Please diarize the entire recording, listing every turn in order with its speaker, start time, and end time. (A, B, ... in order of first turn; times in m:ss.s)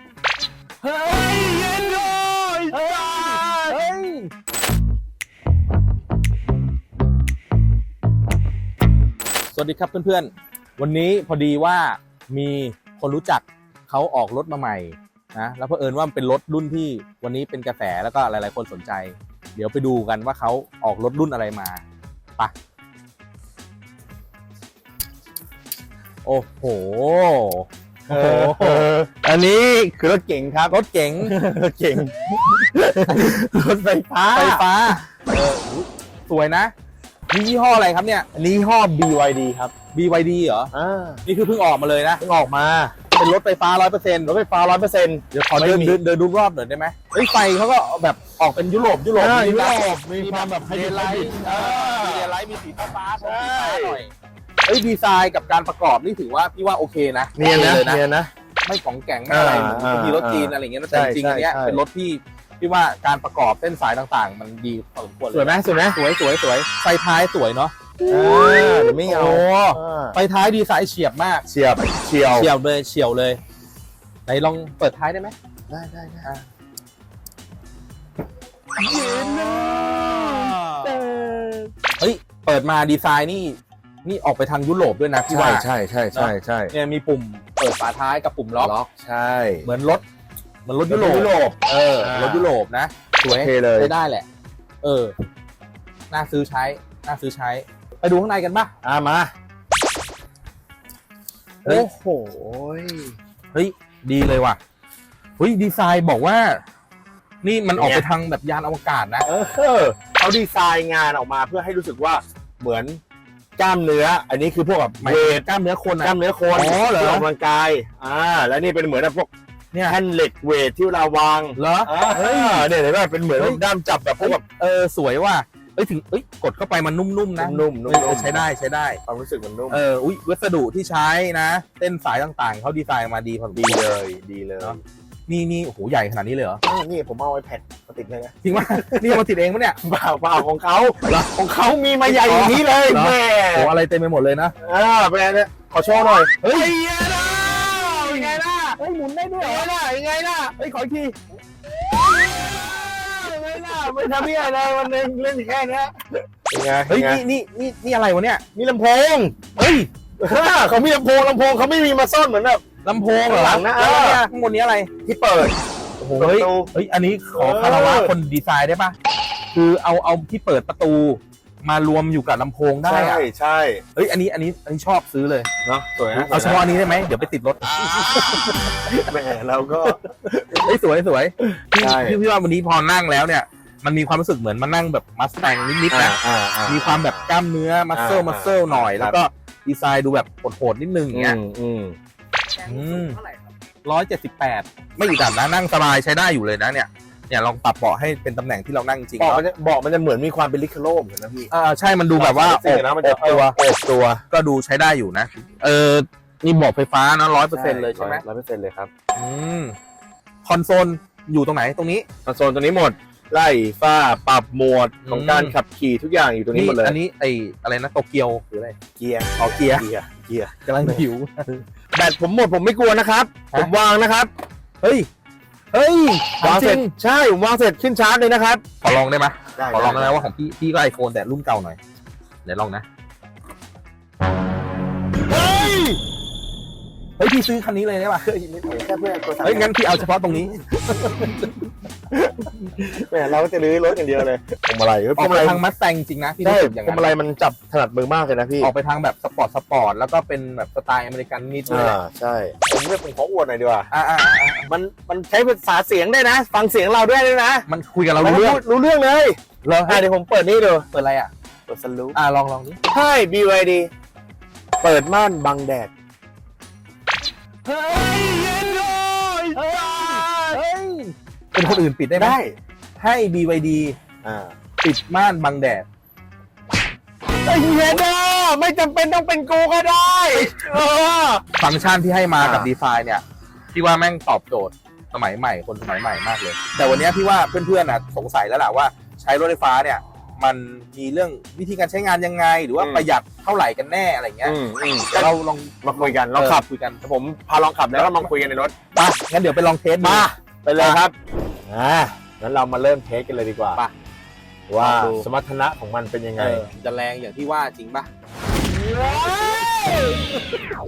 0:00.8-0:04.3 A
0:01.5-0:03.8 B
0:09.5-0:21.8 A
0:26.2-0:28.9 A
0:28.1-0:34.9 B
0:30.7-0:31.4 A
0:33.0-0:33.4 A
0:34.3-0:36.7 A
0:37.3-0:38.3 A
0:38.4-0:39.7 B
0:39.9-0:40.7 A
0:40.7-0:41.2 B
0:41.3-0:42.2 A
0:42.2-0:43.0 B
0:43.1-0:44.3 A
0:44.3-0:46.0 B
0:45.3-0:54.1 A
0:49.2-0:52.3 B
0:53.2-0:54.0 B
0:54.7-0:58.0 A
0:57.4-0:58.3 B
0:58.6-1:11.5 A
0:59.3-1:01.8 B
1:05.3-1:06.0 B
1:08.1-1:10.2 B
1:11.5-1:12.5 B
1:12.3-1:13.4 A
1:14.3-1:15.4 A
1:15.7-1:16.4 B
1:18.8-1:21.7 B
1:18.8-1:21.0 A
1:22.0-1:28.7 A
1:25.3-1:26.7 B
1:28.6-1:29.7 B
1:29.6-1:30.0 A
1:30.6-1:34.3 A
1:30.9-1:32.5 B
1:33.3-1:33.9 B
1:34.8-1:35.1 A
1:36.1-1:38.7 A
1:38.8-1:39.3 B
1:41.6-1:43.2 B
1:43.5-1:44.6 A
1:45.4-1:46.6 A
1:47.4-1:49.3 A
1:47.8-1:48.0 B
1:49.2-1:53.0 B
1:53.6-1:55.4 B
1:55.0-1:57.3 A
1:56.0-1:59.3 B
1:59.7-2:00.0 A
1:59.9-2:04.4 B
2:01.6-2:02.7 A
2:03.4-2:03.6 A
2:04.2-2:09.0 A
2:07.4-2:08.4 B
2:09.1-2:09.8 B
2:09.7-2:13.9 A
2:13.6-2:14.8 B
2:14.6-2:16.6 A
2:16.6-2:19.2 B
2:18.4-2:19.8 A
2:19.8-2:23.7 B
2:21.1-2:21.3 A
2:22.0-2:24.5 A
2:24.6-2:28.8 B
2:26.3-2:29.7 A
2:29.4-2:30.6 B
2:30.6-2:31.2 A
2:31.7-2:37.2 B
2:36.9-2:38.4 A
2:38.6-2:39.4 B
2:39.6-2:39.9 A
2:40.2-2:42.6 B
2:42.8-2:44.9 A
2:43.2-2:44.2 B
2:45.0-2:45.6 B
2:46.0-2:49.0 A
2:46.1-2:46.7 B
2:47.4-2:48.1 B
2:49.5-2:53.3 A
2:52.8-2:53.8 B
2:54.0-2:55.5 A
2:55.6-2:56.7 B
2:56.2-2:59.0 A
2:57.7-3:00.8 B
3:00.5-3:11.4 A
3:01.4-3:02.2 B
3:05.9-3:07.3 B
3:07.9-3:09.2 B
3:11.1-3:12.0 B
3:12.6-3:13.2 A
3:13.8-3:19.4 A
3:19.2-3:21.5 B
3:21.5-3:23.6 A
3:22.2-3:24.2 B
3:24.3-3:28.2 A
3:27.5-3:28.9 B
3:29.2-3:29.8 A
3:30.4-3:32.1 A
3:32.2-3:37.0 B
3:35.1-3:35.6 A
3:36.5-3:38.8 A
3:39.0-3:41.0 B
3:39.4-3:39.9 A
3:40.7-3:41.5 A
3:41.9-3:44.3 B
3:44.8-3:45.1 A
3:45.7-3:46.9 A
3:46.4-3:48.6 B
3:48.8-3:51.8 A
3:49.6-3:50.3 B
3:52.4-3:52.8 A
3:55.3-3:56.0 B
3:55.3-3:55.7 A
3:57.2-3:58.2 A
3:58.2-3:59.7 B
3:59.4-4:01.5 A
4:00.8-4:01.6 B
4:02.1-4:05.6 B
4:05.2-4:07.2 A
4:06.4-4:08.7 B
4:08.6-4:12.0 A
4:11.7-4:13.9 B
4:13.9-4:14.7 A
4:14.6-4:20.9 B
4:17.7-4:18.6 A
4:19.6-4:20.0 A
4:20.9-4:21.3 A
4:21.7-4:22.2 B
4:22.1-4:22.8 A
4:22.9-4:23.9 B
4:24.8-4:25.9 B
4:27.7-4:28.9 A
4:28.0-4:30.6 B
4:29.5-4:32.4 A
4:31.6-4:32.6 B
4:33.0-4:34.0 A
4:34.2-4:34.5 B
4:34.8-4:35.9 A
4:37.4-4:41.4 B
4:41.6-4:54.6 A
4:42.4-4:42.7 B
4:52.8-4:53.1 B
4:54.4-4:58.7 B
4:55.1-4:57.0 A
4:57.9-4:58.3 A
4:59.0-5:01.0 A
5:00.0-5:01.1 B
5:01.7-5:03.8 B
5:04.7-5:06.6 B
5:04.8-5:05.3 A
5:06.4-5:08.1 A
5:08.7-5:10.4 B
5:08.9-5:09.6 A